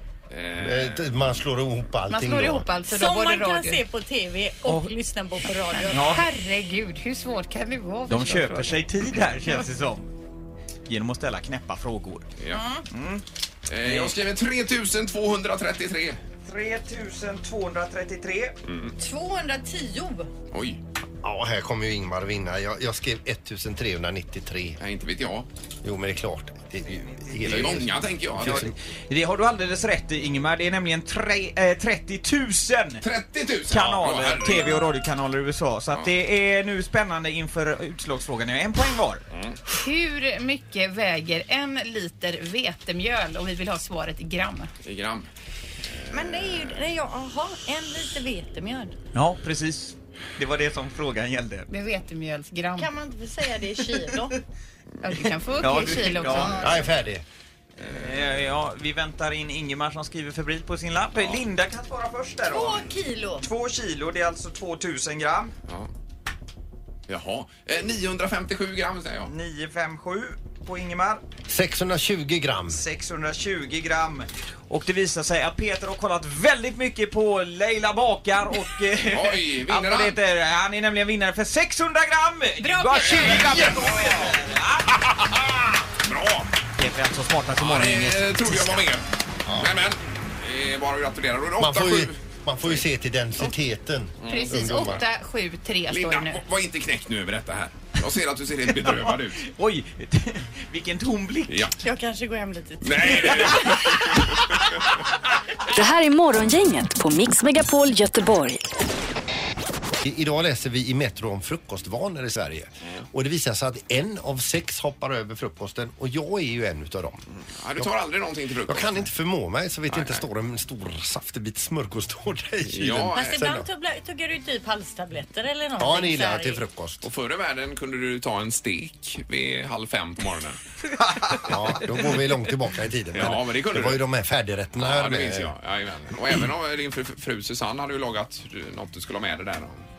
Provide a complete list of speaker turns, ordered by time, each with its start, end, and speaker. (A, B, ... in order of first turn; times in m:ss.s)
0:00.3-0:01.4 A
0:00.6-0:02.7 B
0:02.1-0:03.8 C
0:02.9-0:06.2 D
0:04.7-0:04.9 E
0:05.7-0:08.8 C
0:05.9-0:06.2 E
0:08.1-0:10.0 E
0:10.9-0:12.3 E
0:12.5-0:12.8 D
0:12.9-0:13.2 E
0:13.7-0:16.2 A
0:13.8-0:14.1 E
0:16.4-0:18.5 E
0:18.6-0:18.9 A
0:19.0-0:20.3 D
0:20.5-0:20.8 A
0:21.2-0:24.8 B
0:24.8-0:25.5 A
0:25.8-0:28.0 B
0:27.0-0:27.7 E
0:27.4-0:28.7 A
0:28.4-0:33.0 E
0:33.0-0:34.8 A
0:33.7-0:39.2 E
0:39.3-0:39.6 A
0:39.7-0:44.7 C
0:44.8-0:45.3 A
0:45.9-0:46.8 A
0:46.1-0:49.0 D
0:49.1-0:51.7 E
0:51.7-0:52.9 C
0:52.8-0:54.4 D
0:55.0-0:56.6 C
0:55.6-0:56.6 E
0:55.6-0:56.9 D
0:56.6-0:57.2 B
0:57.8-1:02.9 E
1:02.5-1:03.4 D
1:03.4-1:05.5 E
1:07.1-1:09.3 A
1:09.2-1:11.2 E
1:11.5-1:12.8 B
1:12.7-1:25.0 E
1:19.1-1:20.2 A
1:22.7-1:23.2 C
1:22.7-1:23.6 D
1:23.1-1:24.3 A
1:24.9-1:26.5 A
1:26.8-1:28.8 E
1:27.6-1:29.0 A
1:29.4-1:29.7 B
1:29.6-1:32.8 A
1:31.6-1:35.0 B
1:34.2-1:35.0 A
1:34.2-1:36.4 C
1:35.9-1:39.4 A
1:38.8-1:41.7 E
1:41.5-1:41.7 A
1:41.8-1:44.3 D
1:42.8-1:44.6 A
1:45.7-1:48.6 F
1:50.0-1:57.2 B
1:57.5-1:59.1 A
1:58.7-2:03.7 B
1:59.9-2:00.2 A
2:02.7-2:03.5 A
2:03.2-2:06.6 D
2:05.8-2:07.1 B
2:07.0-2:10.6 A
2:11.4-2:15.5 B
2:13.1-2:14.0 A
2:14.7-2:19.8 A